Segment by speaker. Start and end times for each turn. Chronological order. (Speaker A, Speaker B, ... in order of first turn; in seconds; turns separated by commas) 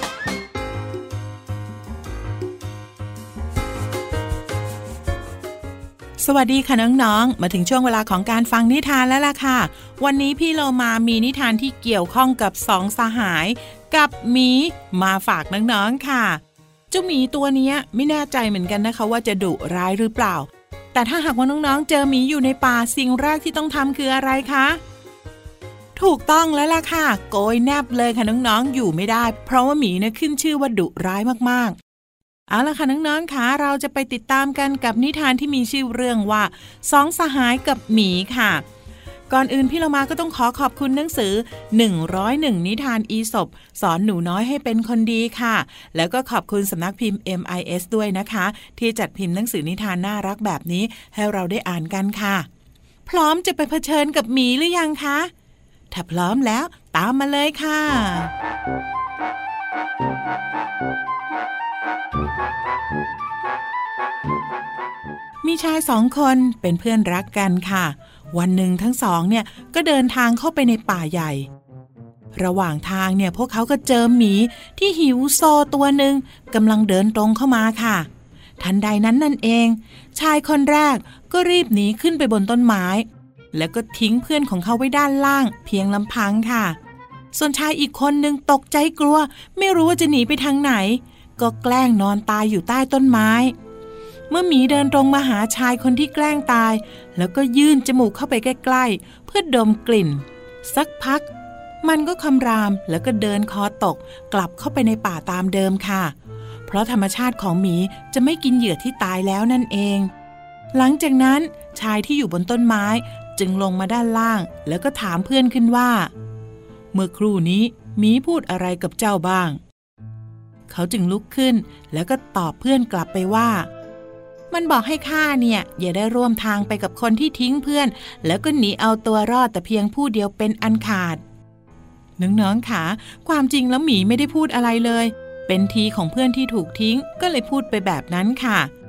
Speaker A: 6.2-24.8, Speaker A: 25.9-31.8, Speaker A: 32.5-38.6, Speaker A: 39.3-52.5, Speaker A: 53.1-55.3, Speaker A: 55.9-58.3, Speaker A: 65.4-71.5, Speaker A: 72.3-78.1, Speaker A: 78.6-86.8, Speaker A: 87.3-93.5, Speaker A: 94.3-101.3, Speaker A: 101.8-106.1, Speaker A: 106.7-110.1, Speaker A: 110.7-116.1, Speaker A: 116.9-119.6, Speaker A: 120.7-123.7, Speaker A: 124.5-131.2, Speaker A: 132.2-138.7